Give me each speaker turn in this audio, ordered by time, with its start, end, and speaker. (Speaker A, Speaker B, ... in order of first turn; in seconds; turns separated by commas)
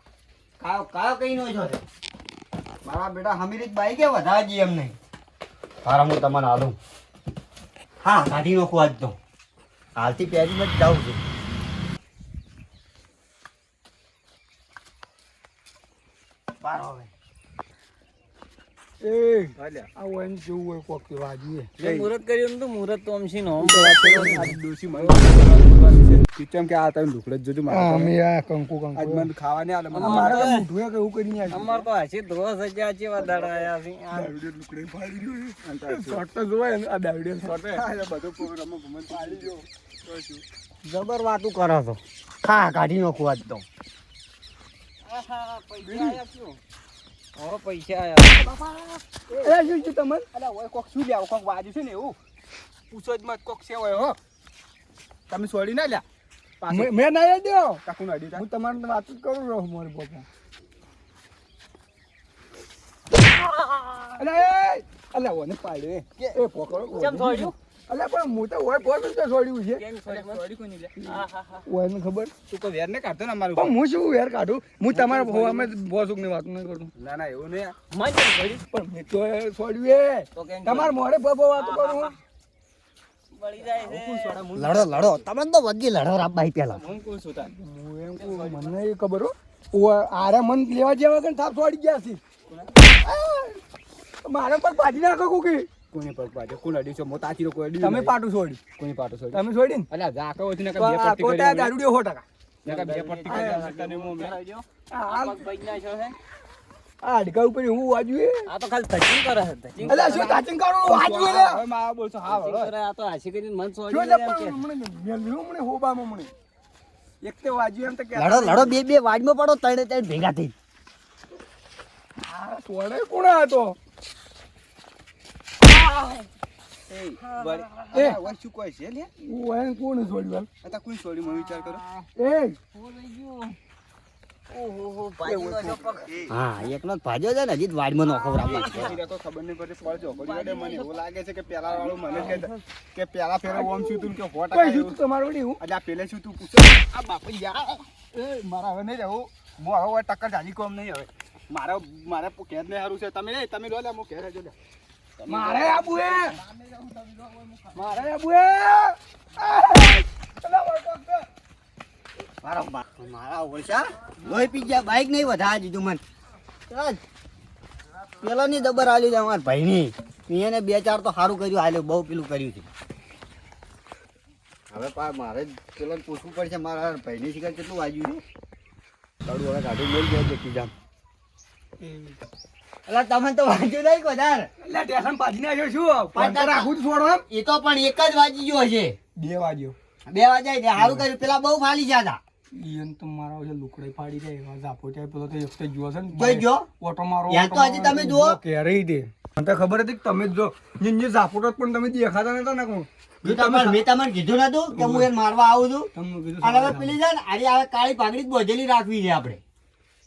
Speaker A: 0.6-1.8, Speaker A: 2.8-4.9, Speaker A: 5.8-6.8, Speaker A: 8.0-9.2, Speaker A: 10.0-11.2, Speaker A: 16.6-17.1, Speaker B: 19.0-21.7, Speaker C: 19.6-19.9, Speaker D: 21.8-24.6, Speaker C: 21.8-22.1, Speaker C: 23.6-28.1, Speaker B: 23.9-25.2, Speaker B: 27.7-29.3, Speaker C: 28.9-30.5, Speaker B: 29.9-31.8, Speaker D: 29.9-30.6, Speaker D: 31.5-34.3, Speaker C: 33.2-33.7, Speaker B: 34.1-37.6, Speaker C: 35.6-36.2, Speaker C: 37.4-40.4, Speaker B: 39.1-39.6, Speaker A: 40.8-43.6, Speaker D: 45.0-46.6, Speaker B: 45.8-46.2, Speaker D: 47.4-49.0, Speaker B: 49.4-50.3, Speaker C: 50.3-52.2, Speaker C: 52.9-54.2, Speaker C: 55.3-56.0, Speaker C: 56.6-57.0, Speaker B: 56.7-57.8, Speaker C: 57.8-58.4, Speaker B: 58.3-60.2, Speaker D: 63.4-64.2, Speaker B: 64.2-69.8, Speaker D: 66.9-67.5, Speaker D: 69.7-70.5, Speaker C: 70.0-71.0, Speaker B: 71.0-72.3, Speaker D: 71.0-71.6, Speaker C: 72.5-73.8, Speaker B: 73.5-76.9, Speaker D: 74.9-75.6, Speaker C: 75.1-75.7, Speaker C: 77.0-77.8, Speaker D: 77.9-78.6, Speaker B: 78.7-82.1, Speaker D: 80.3-81.0, Speaker D: 81.6-82.2, Speaker D: 83.3-84.5, Speaker C: 83.6-85.2, Speaker A: 84.5-86.8, Speaker C: 86.7-87.5, Speaker B: 87.5-92.2, Speaker C: 88.2-88.8, Speaker B: 93.0-93.6, Speaker B: 94.2-95.7, Speaker C: 95.9-98.1, Speaker B: 97.8-98.6, Speaker C: 98.8-101.7, Speaker B: 99.3-99.9, Speaker B: 100.8-102.2, Speaker C: 102.6-104.3, Speaker D: 102.6-106.2, Speaker B: 103.3-103.7, Speaker B: 104.9-105.5, Speaker B: 107.0-108.5, Speaker D: 108.5-110.4, Speaker C: 109.8-112.7, Speaker B: 109.9-111.6, Speaker D: 112.3-114.6, Speaker B: 113.9-116.3, Speaker B: 117.2-118.8, Speaker A: 118.1-120.5, Speaker B: 122.2-123.8, Speaker D: 125.7-126.2, Speaker C: 126.9-129.1, Speaker D: 127.2-128.1, Speaker B: 127.9-128.2, Speaker B: 129.2-130.5, Speaker C: 130.6-131.8, Speaker B: 132.2-132.6, Speaker D: 132.7-133.6, Speaker D: 134.5-136.2, Speaker B: 135.2-136.1, Speaker A: 136.3-139.0, Speaker D: 138.2-139.0, Speaker C: 138.4-145.0, Speaker D: 140.0-140.9, Speaker D: 141.7-142.6, Speaker B: 143.5-145.6, Speaker C: 145.6-154.5, Speaker B: 155.2-156.4, Speaker C: 155.3-158.0, Speaker B: 157.7-161.3, Speaker A: 162.4-166.0, Speaker A: 166.7-167.0, Speaker A: 168.2-172.7, Speaker A: 174.7-178.2, Speaker A: 179.2-180.7, Speaker B: 181.8-182.2, Speaker A: 182.9-184.5, Speaker B: 184.6-187.2, Speaker A: 186.1-186.7, Speaker A: 187.3-188.9, Speaker B: 189.2-189.8, Speaker A: 190.1-192.2, Speaker B: 190.8-191.1, Speaker B: 192.5-203.8, Speaker A: 196.1-196.7, Speaker A: 197.3-198.4, Speaker A: 203.2-205.9, Speaker B: 204.7-205.1, Speaker B: 205.9-207.0, Speaker A: 206.4-209.4